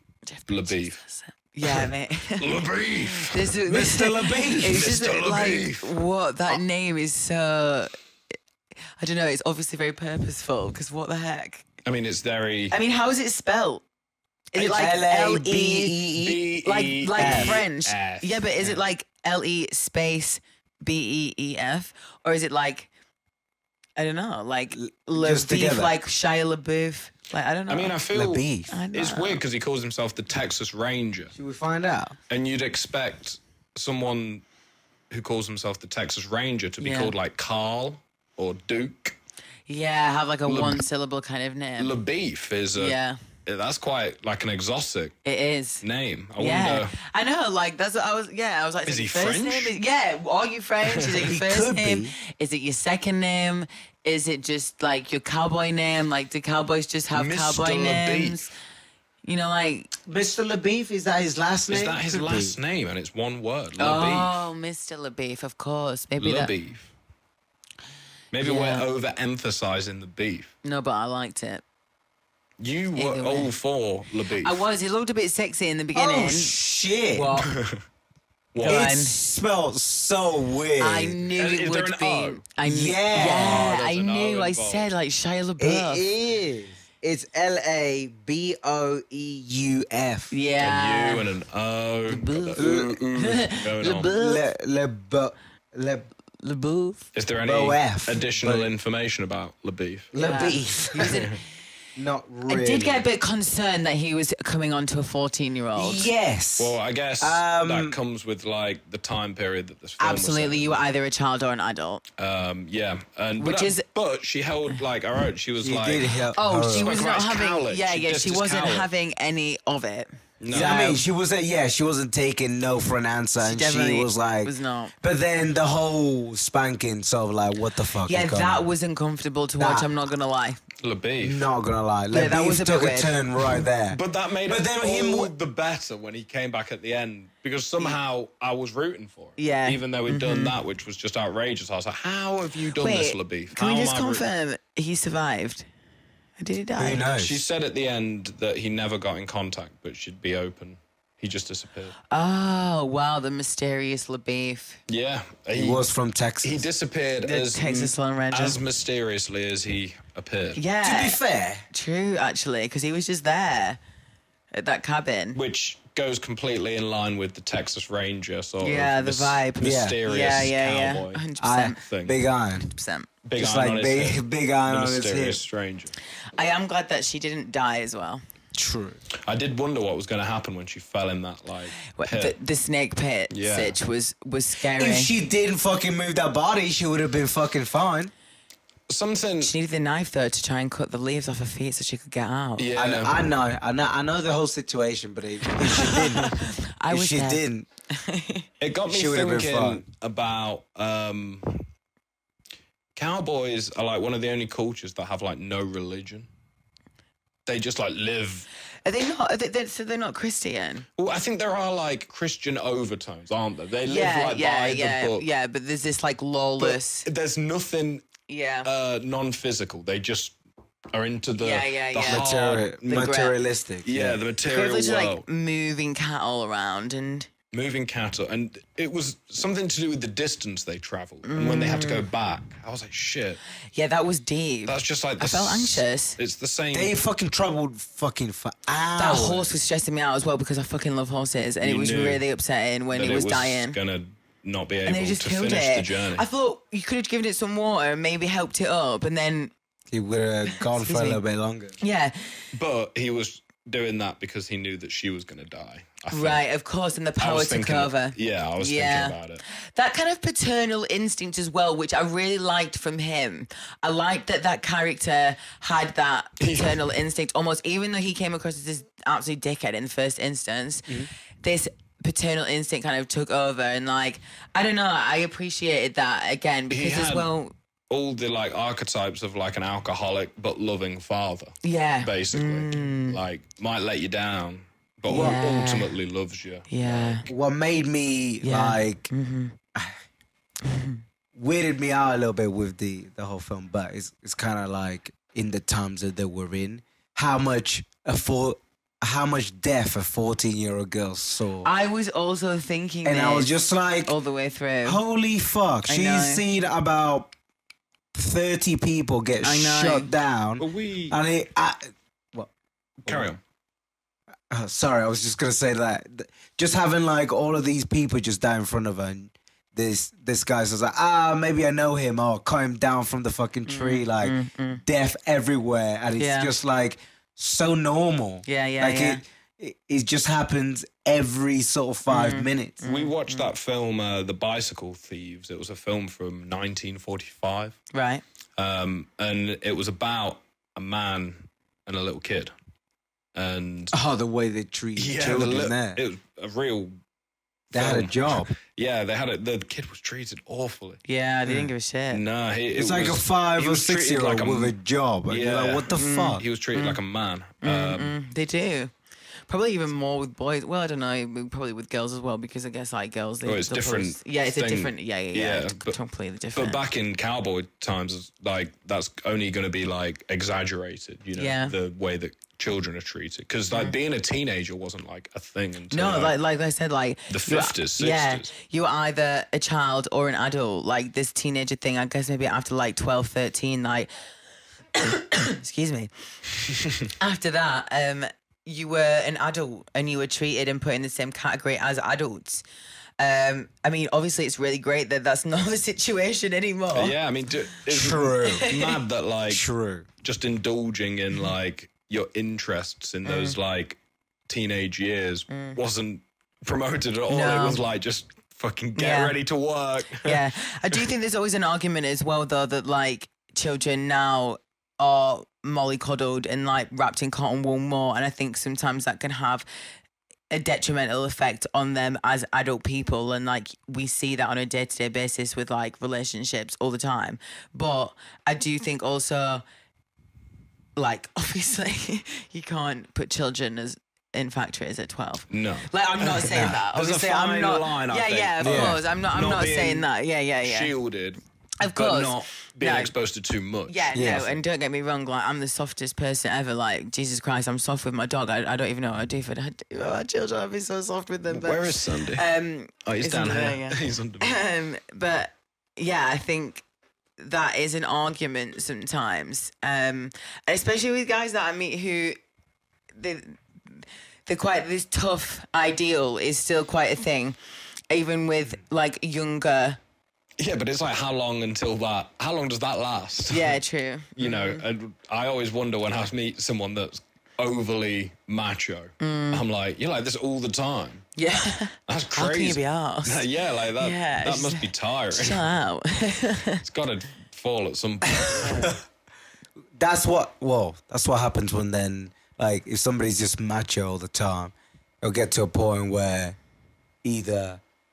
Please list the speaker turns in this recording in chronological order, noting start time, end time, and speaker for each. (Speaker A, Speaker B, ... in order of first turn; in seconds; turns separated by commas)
Speaker A: 0.3-7.9, Speaker B: 0.5-1.0, Speaker B: 1.6-3.6, Speaker C: 3.7-5.0, Speaker B: 4.5-5.9, Speaker A: 9.0-11.7, Speaker B: 11.8-12.8, Speaker A: 12.7-13.8, Speaker A: 14.5-16.1, Speaker C: 14.6-16.5, Speaker B: 16.2-18.8, Speaker A: 16.6-22.9, Speaker C: 17.1-17.6, Speaker A: 24.0-28.0, Speaker C: 24.7-25.9, Speaker B: 27.7-31.3, Speaker C: 28.1-28.9, Speaker A: 28.7-29.4, Speaker C: 31.3-32.1, Speaker B: 32.3-34.4, Speaker B: 35.1-39.2, Speaker A: 36.8-37.1, Speaker A: 39.7-41.9, Speaker B: 40.5-40.8, Speaker B: 41.8-45.2, Speaker A: 42.8-43.2, Speaker A: 45.2-45.8, Speaker B: 45.8-47.0, Speaker A: 46.4-58.5, Speaker B: 48.9-49.8, Speaker B: 50.9-51.3, Speaker C: 51.3-52.1, Speaker B: 57.1-58.5, Speaker A: 59.2-59.9, Speaker C: 60.1-62.6, Speaker B: 61.7-64.4, Speaker A: 63.8-66.5, Speaker B: 66.2-66.9, Speaker B: 68.3-70.5, Speaker A: 68.4-68.8, Speaker A: 70.6-71.6, Speaker B: 72.6-74.6, Speaker A: 73.0-73.5, Speaker A: 74.4-76.6, Speaker C: 75.9-77.3, Speaker A: 77.1-77.5, Speaker B: 77.5-77.8, Speaker B: 78.5-78.9, Speaker A: 78.6-79.2, Speaker C: 78.6-81.2, Speaker A: 80.8-86.0, Speaker B: 81.3-82.5, Speaker C: 82.6-83.8, Speaker B: 83.1-84.9, Speaker C: 85.6-90.3, Speaker A: 90.3-91.3, Speaker B: 90.6-94.1, Speaker A: 92.1-94.5, Speaker C: 92.6-93.0, Speaker C: 94.1-96.1, Speaker A: 96.4-97.1, Speaker B: 97.2-100.1, Speaker C: 97.4-98.7, Speaker C: 100.1-101.3, Speaker A: 100.2-101.4, Speaker C: 102.0-103.1, Speaker A: 102.5-106.1, Speaker C: 105.8-108.0, Speaker B: 106.6-110.8, Speaker A: 110.0-112.0, Speaker B: 112.2-118.9, Speaker A: 113.4-113.8, Speaker C: 115.6-117.0, Speaker A: 116.3-121.0, Speaker B: 120.4-121.0, Speaker C: 120.5-128.7, Speaker A: 123.4-124.9, Speaker A: 128.0-130.6, Speaker C: 129.6-129.9, Speaker B: 130.8-131.5, Speaker C: 131.2-135.3, Speaker A: 132.1-133.6, Speaker B: 133.9-144.2, Speaker A: 139.4-140.6, Speaker A: 142.8-145.7, Speaker A: 146.4-147.1, Speaker C: 146.8-147.4, Speaker B: 147.2-152.0, Speaker A: 152.1-154.8, Speaker B: 154.9-155.8, Speaker C: 155.6-156.7, Speaker B: 156.4-160.6, Speaker A: 157.2-158.6, Speaker A: 160.6-161.2, Speaker C: 160.8-161.7, Speaker A: 161.7-163.8, Speaker A: 164.5-165.4, Speaker B: 165.3-171.2, Speaker A: 168.6-171.8, Speaker C: 169.6-170.0, Speaker C: 171.4-172.7, Speaker B: 171.8-172.2, Speaker A: 172.7-173.1, Speaker B: 173.2-175.9, Speaker C: 173.4-175.4, Speaker A: 176.4-178.2, Speaker C: 178.6-179.0, Speaker B: 179.2-182.3, Speaker A: 181.9-185.1, Speaker B: 183.3-183.8, Speaker C: 184.8-188.1, Speaker B: 188.9-189.5, Speaker A: 189.4-192.7, Speaker B: 192.6-193.2, Speaker C: 192.8-197.7, Speaker A: 195.6-198.5, Speaker B: 198.6-201.7, Speaker C: 198.9-199.8, Speaker B: 203.0-206.3, Speaker B: 207.5-208.5, Speaker A: 208.8-210.9, Speaker B: 211.0-215.2, Speaker A: 213.8-217.1, Speaker B: 216.6-218.1, Speaker A: 218.3-218.7, Speaker B: 218.6-220.4, Speaker B: 220.9-223.1, Speaker A: 221.4-222.3, Speaker C: 222.0-224.2, Speaker A: 222.9-223.3, Speaker B: 223.8-225.2, Speaker A: 224.5-227.3, Speaker B: 227.5-233.4, Speaker A: 231.3-232.1, Speaker A: 233.7-236.2, Speaker B: 234.7-236.9, Speaker C: 236.7-239.6, Speaker A: 239.0-243.8, Speaker B: 241.6-242.2, Speaker B: 242.9-246.2, Speaker A: 244.8-249.5, Speaker C: 249.9-251.8, Speaker A: 250.8-251.2, Speaker A: 251.8-252.3, Speaker B: 252.5-256.4, Speaker A: 256.1-277.5, Speaker B: 257.2-259.4, Speaker B: 266.4-266.8, Speaker B: 276.7-277.3, Speaker B: 277.9-287.3, Speaker A: 281.6-283.2, Speaker C: 285.1-285.4, Speaker A: 285.1-286.0, Speaker A: 286.7-287.3, Speaker C: 287.2-289.1, Speaker A: 288.4-289.6, Speaker A: 290.6-291.0, Speaker C: 291.4-301.7, Speaker A: 301.6-303.5, Speaker C: 303.1-304.1, Speaker A: 304.1-305.0, Speaker C: 304.8-307.3, Speaker A: 305.9-306.4, Speaker C: 308.1-311.8, Speaker A: 309.4-310.1, Speaker B: 310.6-311.2, Speaker C: 313.0-313.4, Speaker B: 313.1-313.4, Speaker C: 314.5-332.8, Speaker A: 323.7-324.8, Speaker A: 326.2-326.5, Speaker A: 328.5-329.2, Speaker A: 332.1-333.5, Speaker B: 332.8-337.8, Speaker A: 337.9-338.2, Speaker B: 338.6-342.5, Speaker B: 343.4-344.0, Speaker C: 343.9-346.0, Speaker B: 345.0-347.0, Speaker B: 347.7-351.0, Speaker C: 347.7-348.5, Speaker A: 351.1-352.2, Speaker C: 351.5-351.7, Speaker B: 352.1-354.7, Speaker C: 352.7-356.4, Speaker B: 355.3-358.1, Speaker A: 355.9-357.0, Speaker A: 357.6-358.9, Speaker A: 359.5-366.8, Speaker B: 363.4-366.0, Speaker B: 366.6-376.4, Speaker A: 371.4-371.8, Speaker A: 375.9-384.1, Speaker B: 377.3-378.5, Speaker A: 384.9-386.1, Speaker A: 387.2-392.6, Speaker A: 393.2-397.1, Speaker B: 396.9-399.6, Speaker C: 397.9-398.7, Speaker A: 398.5-399.0, Speaker C: 399.5-400.1, Speaker B: 400.2-411.0, Speaker A: 403.2-403.6, Speaker A: 405.5-405.8, Speaker A: 407.3-407.8, Speaker A: 409.0-409.4, Speaker A: 410.2-419.7, Speaker A: 420.5-429.6, Speaker A: 431.0-440.9, Speaker B: 435.5-440.1, Speaker C: 436.3-436.8, Speaker C: 438.6-439.0, Speaker B: 440.6-444.5, Speaker A: 441.8-443.1, Speaker A: 443.9-456.8, Speaker C: 444.1-444.6, Speaker B: 451.5-452.5, Speaker B: 453.0-454.6, Speaker A: 457.4-462.4, Speaker A: 463.2-463.6, Speaker A: 464.5-467.6, Speaker A: 468.1-470.0, Speaker B: 470.6-473.8, Speaker A: 473.5-474.8, Speaker B: 474.4-481.3, Speaker A: 479.2-479.6, Speaker A: 481.4-483.5, Speaker B: 482.1-485.6, Speaker A: 484.0-486.8, Speaker B: 486.8-488.9, Speaker A: 488.6-488.9, Speaker C: 489.9-496.6, Speaker C: 497.2-497.8